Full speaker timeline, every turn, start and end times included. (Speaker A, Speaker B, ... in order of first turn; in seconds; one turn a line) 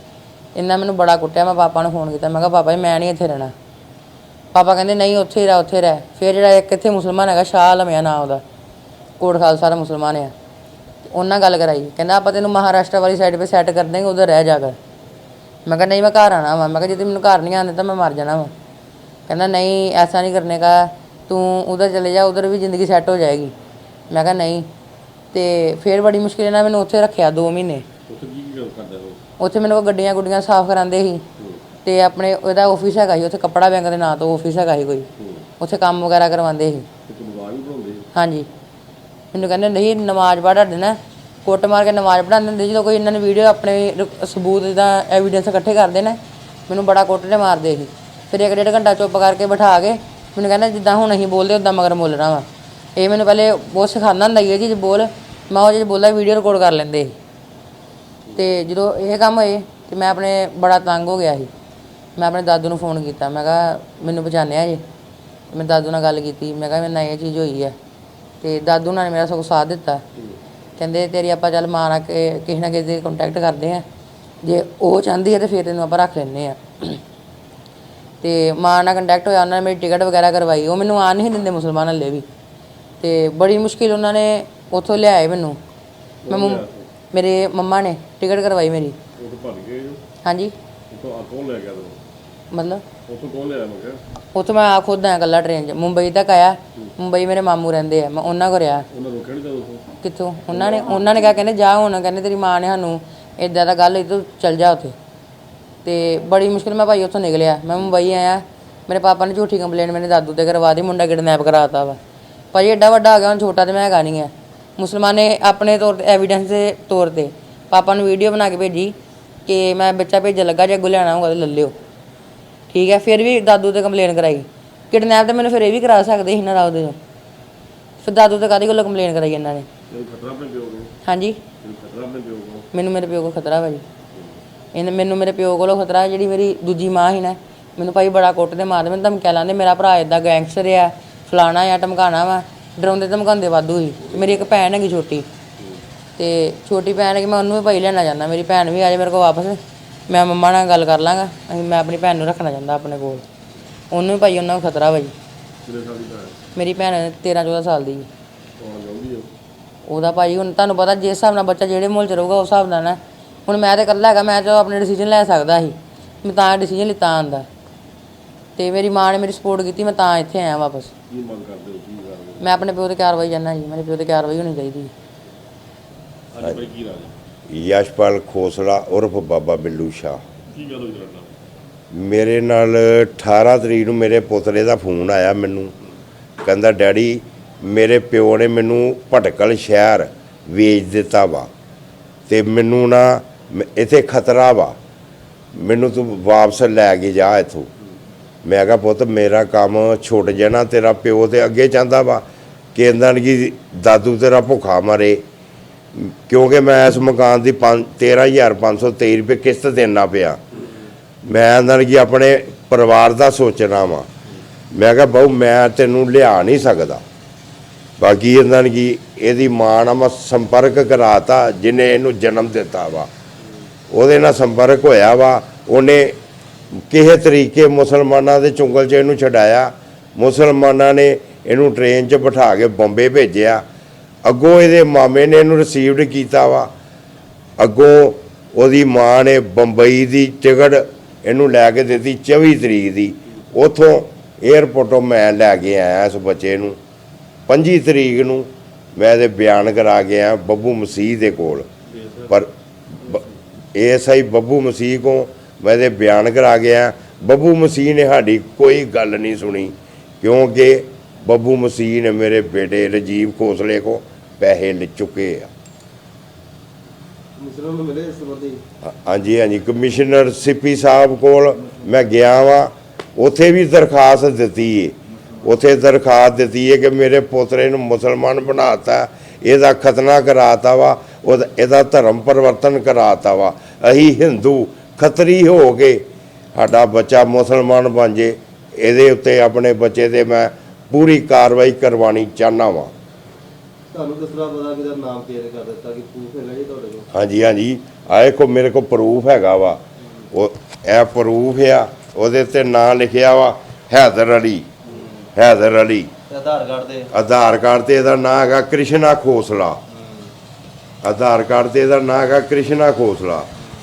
Speaker A: 0.6-3.5
Speaker A: 4.5-8.4
Speaker A: 9.2-10.3
Speaker A: 11.1-14.8
Speaker A: 15.7-18.5
Speaker A: 19.3-23.5
Speaker A: 24.1-24.7
Speaker A: 25.3-27.9
Speaker B: 28.1-29.2
Speaker A: 29.4-31.2
Speaker B: 31.4-31.6
Speaker A: 31.8-35.1
Speaker B: 35.2-35.5
Speaker A: 35.6-36.9
Speaker B: 37.1-38.0
Speaker A: 38.1-38.5
Speaker A: 39.3-57.2
Speaker A: 58.4-61.5
Speaker A: 62.2-64.8
Speaker A: 65.5-67.8
Speaker A: 68.4-70.0
Speaker A: 70.8-73.8
Speaker A: 74.4-77.0
Speaker A: 78.2-82.3
Speaker A: 83.0-85.6
Speaker B: 86.2-86.9
Speaker A: 86.3-89.0
Speaker B: 89.2-90.0
Speaker A: 90.2-90.5
Speaker B: 90.9-92.0
Speaker A: 92.5-92.8
Speaker B: 93.1-94.0
Speaker A: 94.3-98.8
Speaker B: 98.9-99.9
Speaker A: 100.0-105.0
Speaker B: 100.5-101.4
Speaker A: 105.8-112.0
Speaker A: 112.5-119.0
Speaker A: 119.5-121.7
Speaker A: 122.7-127.0
Speaker A: 128.0-129.7
Speaker B: 129.9-130.9
Speaker A: 131.0-131.4
Speaker B: 131.6-132.7
Speaker A: 132.7-133.8
Speaker B: 134.1-134.4
Speaker A: 134.7-145.3
Speaker B: 144.0-144.4
Speaker B: 145.6-145.8
Speaker A: 146.2-153.2
Speaker A: 153.9-155.1
Speaker B: 155.7-156.4
Speaker A: 156.6-158.1
Speaker B: 158.6-159.3
Speaker A: 159.9-167.5
Speaker A: 168.6-170.9
Speaker B: 171.1-172.5
Speaker A: 172.4-174.9
Speaker B: 176.3-177.2
Speaker C: 177.5-180.2
Speaker B: 180.5-181.3
Speaker C: 181.9-185.7
Speaker C: 186.4-191.5
Speaker C: 192.3-194.8
Speaker C: 195.6-197.7
Speaker C: 198.4-202.2
Speaker C: 202.8-205.2
Speaker C: 206.0-210.4
Speaker C: 211.3-214.1
Speaker C: 214.7-217.0
Speaker C: 218.0-223.1
Speaker C: 223.9-226.2
Speaker C: 226.9-233.6
Speaker C: 234.2-236.7
Speaker C: 237.6-246.8
Speaker C: 247.5-251.7
Speaker D: 252.0-252.2
Speaker C: 253.8-265.5
Speaker D: 267.4-268.6
Speaker C: 268.9-286.0
Speaker C: 286.6-292.9
Speaker D: 293.9-297.1
Speaker C: 297.1-299.8
Speaker C: 300.3-304.7
Speaker D: 304.9-305.3
Speaker C: 305.4-306.1
Speaker D: 306.3-307.1
Speaker C: 307.1-309.8
Speaker D: 309.9-310.3
Speaker C: 311.0-313.5